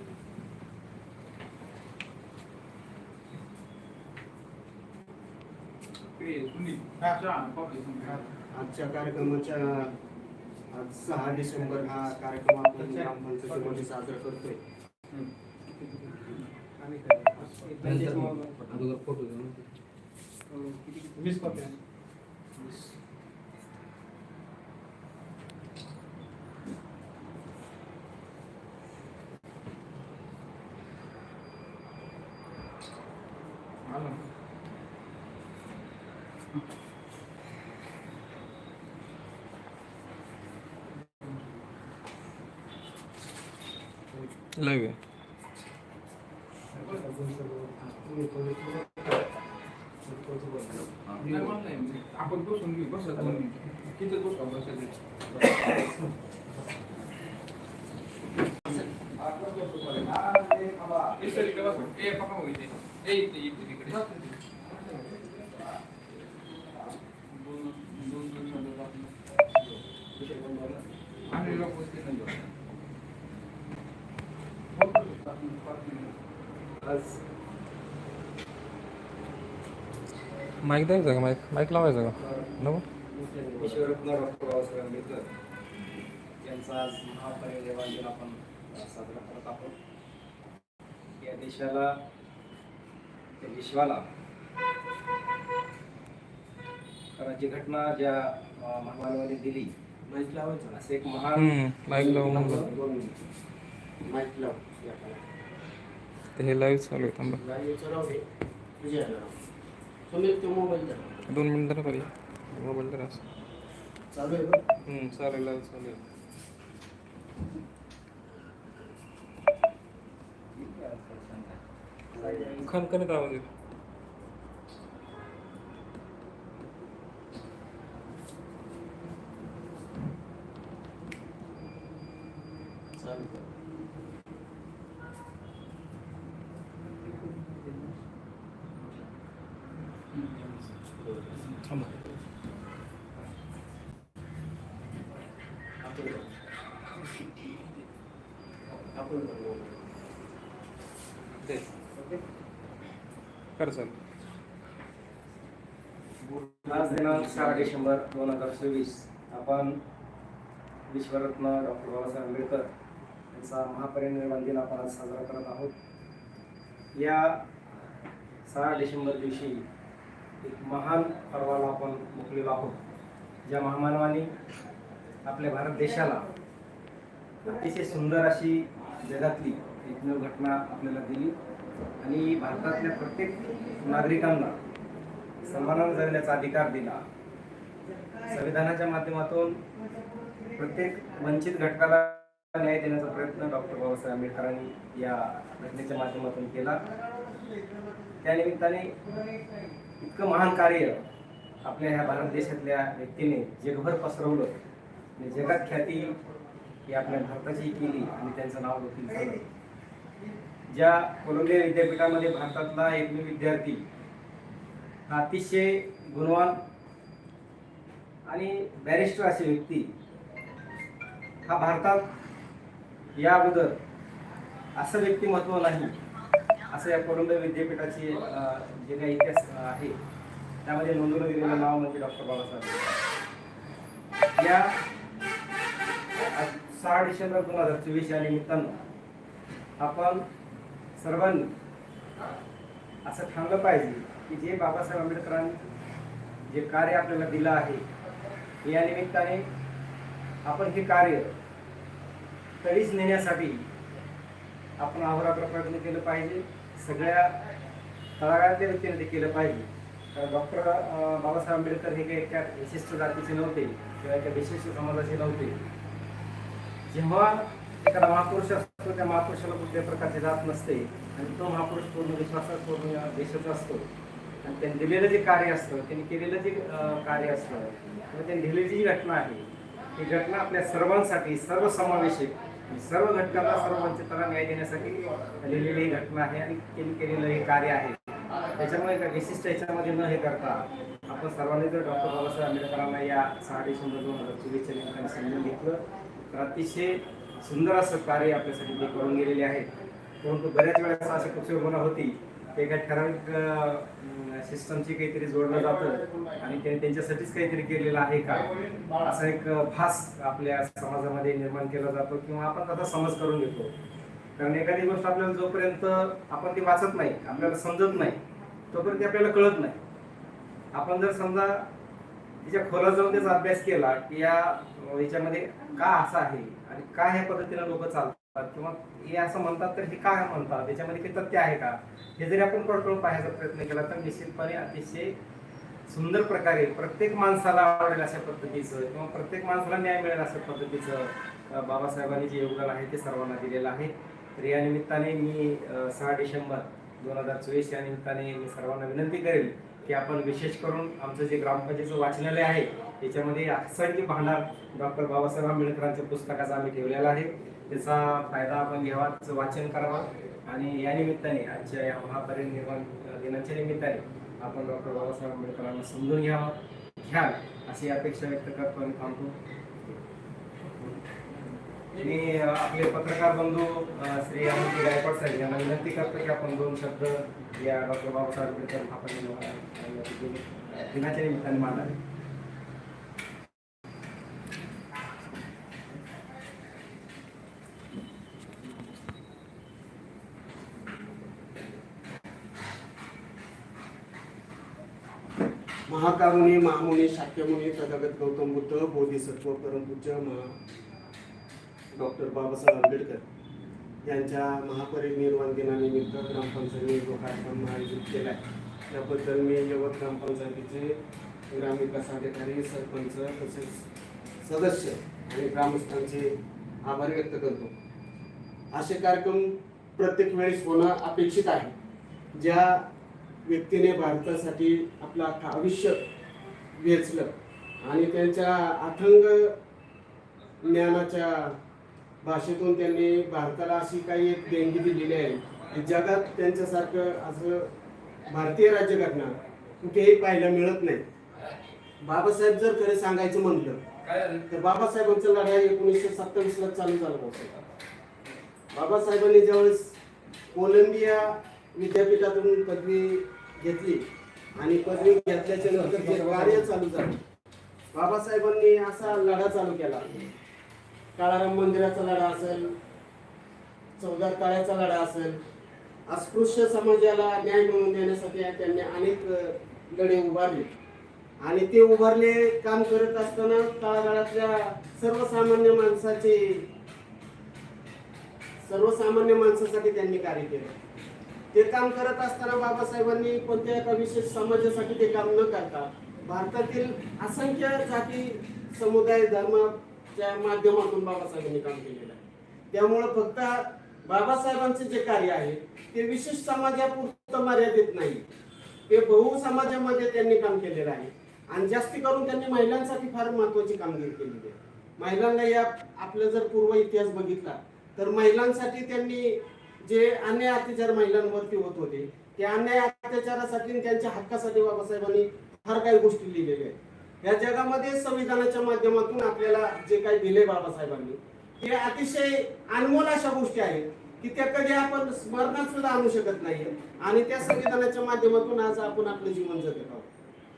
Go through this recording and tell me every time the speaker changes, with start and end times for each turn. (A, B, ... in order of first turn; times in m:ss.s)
0:06.2-0:08.3 A
0:08.5-0:09.9 B
0:10.7-0:14.6 B
0:16.1-0:16.4 A
0:17.4-0:18.8 C
0:17.8-0:19.6 A
0:21.2-0:21.6 A
0:33.9-0:34.2 A
0:44.6-0:45.0 D
0:46.8-0:49.1 B
0:50.0-0:51.4 B
0:51.2-0:55.0 A
0:59.2-1:01.1 C
1:01.2-1:04.3 A
1:07.3-1:09.1 A
1:10.1-1:10.8 C
1:11.3-1:12.5 A
1:11.4-1:11.6 C
1:14.7-1:16.2 A
1:16.8-1:17.2 C
1:20.6-1:22.8 D
1:23.1-1:23.9 B
1:23.6-1:25.3 C
1:26.4-1:29.8 C
1:31.2-1:32.0 C
1:33.4-1:34.1 C
1:37.2-1:39.7 C
1:40.1-1:40.8 B
1:40.7-1:41.6 C
1:41.4-1:42.7 D
1:41.9-1:43.3 B
1:42.3-1:42.6 C
1:44.0-1:45.2 B
1:46.4-1:47.4 D
1:47.3-1:48.2 B
1:48.8-1:49.4 B
1:50.1-1:51.2 B
1:51.3-1:53.2 D
1:54.1-1:54.6 B
1:54.9-1:56.0 D
2:02.1-2:02.6 B
2:02.1-2:02.8 C
2:02.6-2:03.4 D
2:13.0-2:13.4 B
2:17.1-2:17.9 A
2:20.1-2:20.8 A
2:21.4-2:21.8 A
2:25.8-2:26.3 B
2:28.9-2:29.8 B
2:33.6-2:34.0 D
2:36.7-2:39.8 C
2:40.9-2:42.7 C
2:43.3-2:45.7 C
2:47.0-2:47.4 C
2:48.5-2:49.6 C
2:50.4-2:52.8 C
2:53.4-2:54.3 C
2:55.2-2:56.3 C
2:57.4-3:01.4 C
3:02.0-3:04.6 C
3:05.4-3:07.0 C
3:08.3-3:09.6 C
3:10.6-3:16.8 C
3:17.1-3:17.8 B
3:18.2-3:19.0 C
3:20.0-3:21.0 C
3:21.6-3:24.6 C
3:25.2-3:26.1 C
3:26.9-3:29.4 C
3:30.7-3:33.8 C
3:35.1-3:36.6 C
3:38.3-3:39.9 C
3:41.4-3:42.1 C
3:43.2-3:43.8 C
3:44.8-3:46.0 C
3:46.7-3:50.0 C
3:50.6-3:52.9 C
3:54.4-3:54.8 C
3:56.2-3:58.8 C
3:59.8-4:00.2 C
4:01.0-4:01.5 C
4:03.1-4:05.6 C
4:06.5-4:07.8 C
4:08.6-4:09.5 C
4:10.4-4:11.3 C
4:12.6-4:13.7 C
4:14.8-4:17.4 C
4:18.2-4:25.6 C
4:26.9-4:33.9 C
4:34.4-4:48.0 C
4:48.5-4:59.7 C
5:00.2-5:13.7 C
5:14.4-5:19.8 C
5:20.7-5:21.7 C
5:22.4-5:35.2 C
5:35.9-6:09.4 C
6:12.0-6:21.9 C
6:35.9-6:40.5 B
6:41.9-6:43.2 B
6:44.0-6:51.0 B
6:51.5-6:53.8 B
6:54.4-6:56.3 B
6:56.8-6:57.7 B
6:58.7-7:01.7 B
7:02.4-7:02.8 B
7:03.4-7:06.0 B
7:06.8-7:09.6 B
7:10.6-7:11.6 B
7:12.2-7:17.7 B
7:18.3-7:21.0 B
7:22.0-7:23.8 B
7:24.5-7:27.6 B
7:28.7-7:29.9 B
7:30.5-7:34.0 B
7:34.6-7:37.2 B
7:35.6-7:36.7 C
7:37.9-7:40.2 B
7:41.2-7:42.7 B
7:44.0-7:45.4 B
7:46.1-7:50.7 B
7:51.4-7:56.7 B
7:58.6-8:00.7 B
8:01.5-8:12.2 B
8:12.7-8:18.3 B
8:18.9-8:50.1 B